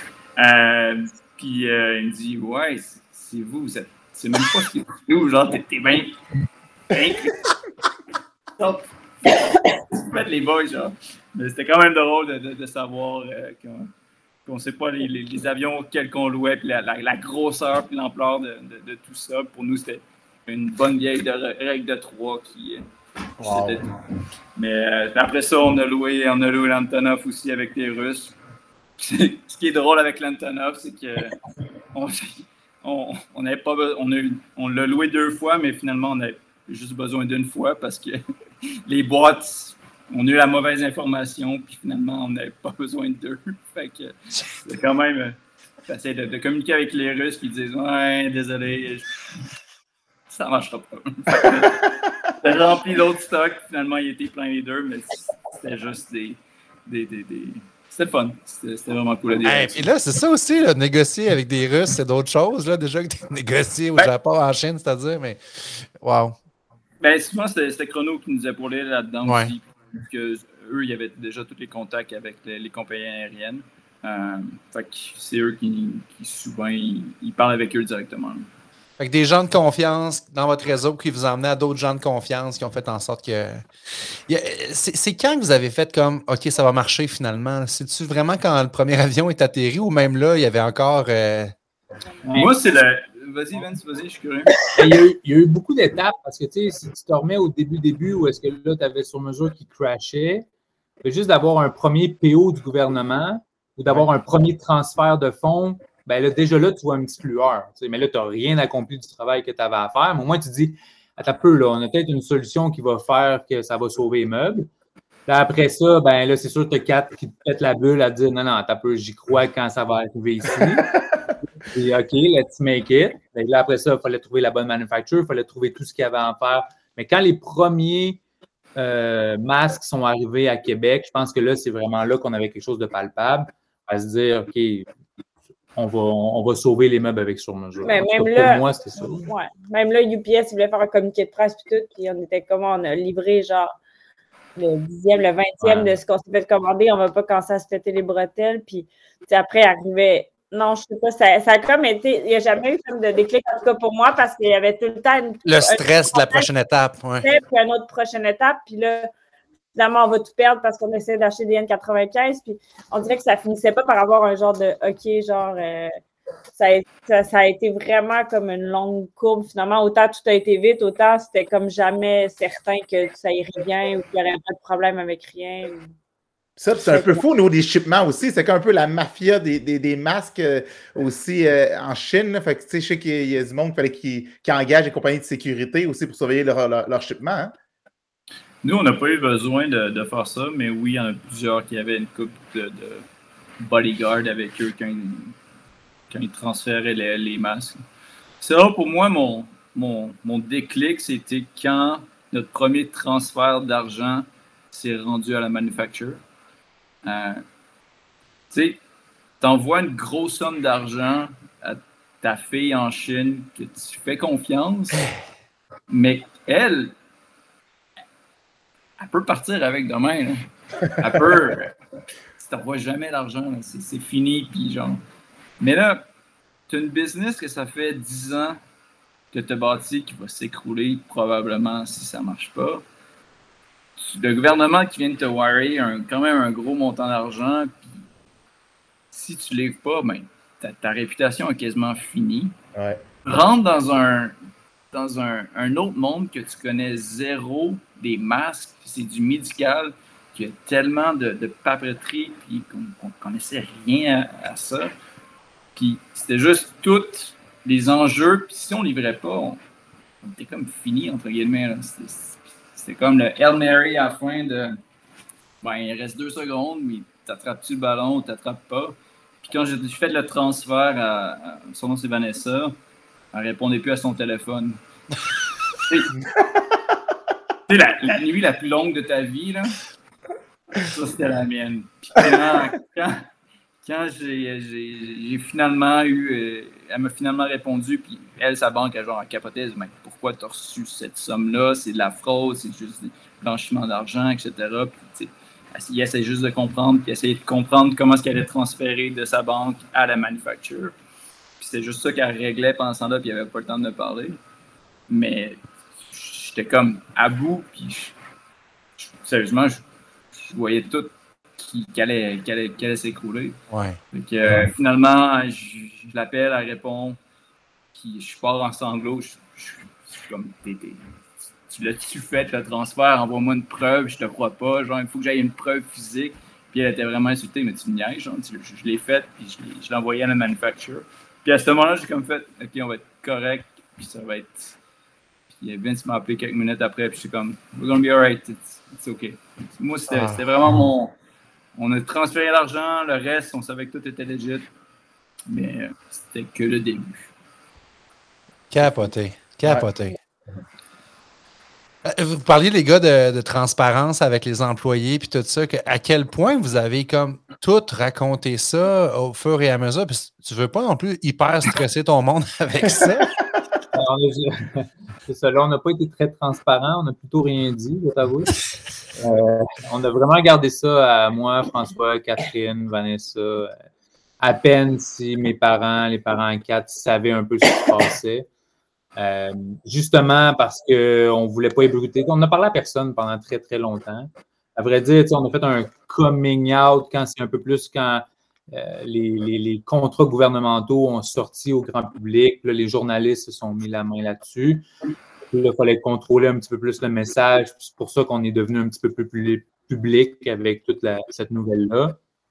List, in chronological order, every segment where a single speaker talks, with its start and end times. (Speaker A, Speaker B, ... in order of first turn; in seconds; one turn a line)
Speaker A: 0.4-6.1
Speaker A: 6.9-7.4
Speaker A: 8.6-13.9
Speaker A: 14.4-22.9
Speaker A: 23.4-23.9
Speaker B: 23.4-23.8
Speaker A: 24.6-28.4
Speaker A: 29.0-31.4
Speaker A: 31.9-38.2
Speaker A: 38.9-45.4
Speaker A: 45.9-49.1
Speaker A: 50.3-59.9
Speaker C: 59.4-66.4
Speaker A: 67.0-78.5
Speaker C: 69.2-69.5
Speaker C: 79.0-83.6
Speaker C: 84.3-91.5
Speaker D: 92.2-92.5
Speaker A: 92.3-94.6
Speaker D: 94.7-100.5
Speaker D: 101.0-114.7
Speaker D: 115.3-121.0
Speaker D: 121.6-128.2
Speaker D: 128.8-134.9
Speaker D: 135.8-139.3
Speaker E: 137.8-138.7
Speaker E: 139.2-143.7
Speaker E: 144.6-156.4
Speaker D: 145.6-145.9
Speaker C: 155.4-157.3
Speaker E: 157.2-159.1
Speaker E: 159.8-166.0
Speaker E: 166.5-175.9
Speaker B: 176.6-187.5
Speaker E: 176.9-177.2
Speaker A: 188.6-193.0
Speaker A: 193.6-195.3
Speaker A: 196.1-197.8
Speaker A: 198.4-206.2
Speaker A: 207.0-207.4
Speaker A: 208.5-208.8
Speaker A: 209.4-215.1
Speaker A: 215.9-216.9
Speaker A: 219.0-221.7
Speaker A: 222.4-225.0
Speaker A: 225.6-226.0
Speaker A: 226.7-228.6
Speaker A: 229.3-232.8
Speaker A: 234.0-237.9
Speaker A: 239.1-242.5
Speaker A: 243.2-244.3
Speaker A: 244.9-254.9
Speaker A: 255.8-259.6
Speaker A: 260.2-264.8
Speaker A: 265.6-272.7
Speaker A: 273.3-274.8
Speaker A: 275.8-276.1
Speaker A: 277.7-279.8
Speaker A: 280.8-283.2
Speaker A: 283.8-300.9
Speaker A: 301.6-304.4
Speaker A: 305.1-308.1
Speaker A: 309.0-313.6
Speaker C: 313.7-314.0
Speaker A: 314.1-317.2
Speaker A: 317.9-321.0
Speaker A: 321.7-334.8
Speaker A: 335.5-341.1
Speaker C: 340.1-340.4
Speaker A: 341.8-344.7
Speaker A: 345.5-347.3
Speaker C: 348.7-350.2
Speaker C: 352.0-363.4
Speaker D: 363.9-368.6
Speaker D: 369.2-373.7
Speaker D: 374.4-378.5
Speaker D: 379.1-394.9
Speaker D: 395.5-402.2